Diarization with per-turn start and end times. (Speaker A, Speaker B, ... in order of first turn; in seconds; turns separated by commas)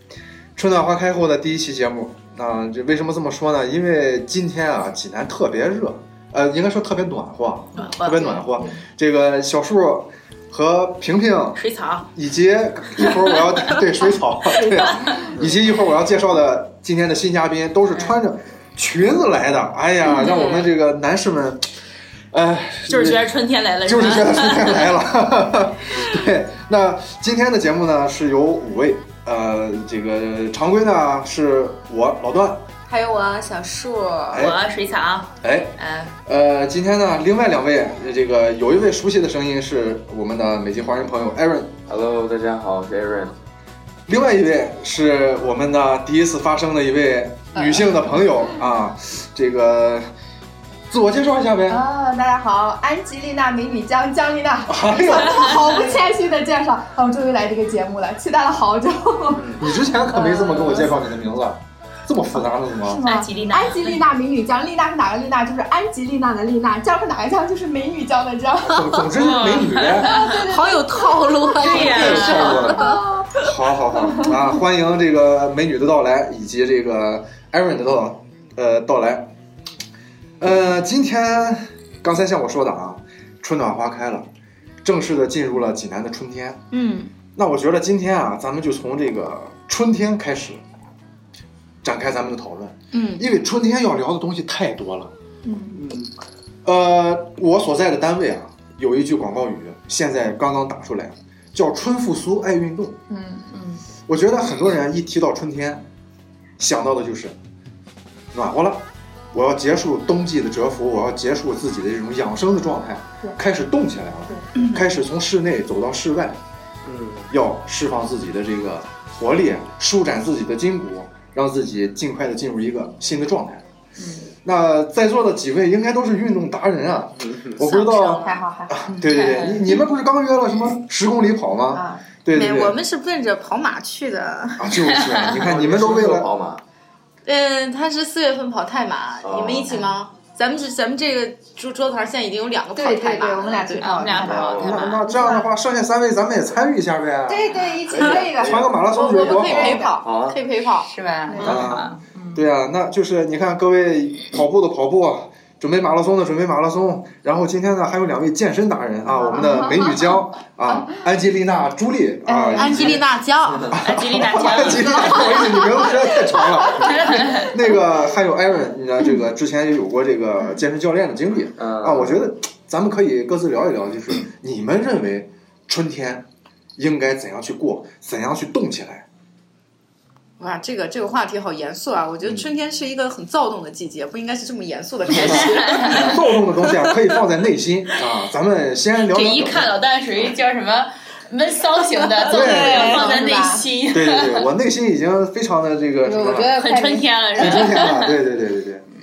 Speaker A: 0.6-11.6, Speaker B: 7.8-8.5, Speaker B: 11.6-12.1, Speaker A: 12.2-21.7, Speaker B: 13.0-13.8, Speaker B: 14.7-15.3, Speaker A: 22.3-23.2, Speaker B: 22.9-25.0, Speaker A: 23.9-32.6, Speaker C: 32.9-34.5, Speaker A: 34.3-34.6, Speaker B: 34.3-36.1, Speaker A: 35.4-41.7, Speaker D: 41.9-43.4, Speaker A: 44.1-50.1, Speaker E: 47.6-48.0, Speaker A: 50.9-51.8, Speaker E: 51.7-59.5, Speaker A: 54.7-55.8, Speaker D: 59.3-59.6, Speaker A: 59.6-63.0, Speaker B: 60.2-60.7, Speaker E: 60.2-60.9, Speaker E: 62.8-69.1, Speaker B: 63.0-64.0, Speaker A: 68.7-70.1, Speaker B: 69.1-70.4, Speaker E: 70.0-73.4, Speaker C: 70.2-73.0, Speaker B: 71.6-72.7, Speaker A: 71.7-79.3, Speaker E: 74.0-74.3, Speaker A: 80.4-84.3, Speaker A: 84.8-86.6, Speaker C: 86.7-87.1, Speaker A: 87.4-90.6, Speaker A: 91.8-95.1, Speaker C: 92.9-93.2, Speaker E: 95.4-95.8, Speaker A: 95.7-96.1, Speaker A: 96.7-103.0, Speaker E: 103.1-103.5, Speaker B: 103.5-103.8, Speaker A: 104.1-105.9, Speaker A: 106.6-107.4, Speaker A: 108.3-116.4, Speaker C: 114.6-114.8, Speaker D: 116.8-117.3, Speaker A: 117.3-123.6, Speaker B: 124.0-124.3, Speaker A: 124.4-132.8, Speaker D: 127.2-127.6, Speaker C: 127.6-128.4, Speaker E: 128.2-129.1, Speaker B: 128.9-129.7, Speaker E: 131.7-132.1, Speaker C: 132.3-134.7, Speaker A: 134.6-136.3, Speaker B: 134.9-135.3, Speaker D: 135.3-136.6, Speaker C: 137.2-144.2, Speaker D: 139.2-139.8, Speaker E: 142.8-145.5, Speaker B: 143.8-145.0, Speaker D: 144.2-144.8, Speaker A: 144.6-147.7, Speaker E: 147.3-149.9, Speaker D: 147.9-148.8, Speaker A: 148.4-149.8, Speaker C: 148.9-150.9, Speaker D: 149.4-150.4, Speaker B: 150.8-152.4, Speaker E: 151.3-151.7, Speaker A: 151.4-163.1, Speaker E: 159.1-160.0, Speaker E: 162.3-163.0, Speaker C: 162.6-163.8, Speaker D: 163.5-163.7, Speaker A: 163.7-176.3, Speaker B: 163.8-165.7, Speaker B: 166.6-167.6, Speaker D: 171.6-172.2, Speaker A: 176.8-179.1, Speaker C: 180.4-186.9, Speaker A: 182.2-182.5, Speaker A: 185.2-189.7, Speaker B: 185.2-186.2, Speaker B: 189.1-194.5, Speaker C: 192.3-193.1, Speaker A: 192.3-193.1, Speaker E: 192.4-193.7, Speaker A: 193.9-196.6, Speaker E: 196.0-197.9, Speaker B: 196.5-198.2, Speaker A: 197.4-198.8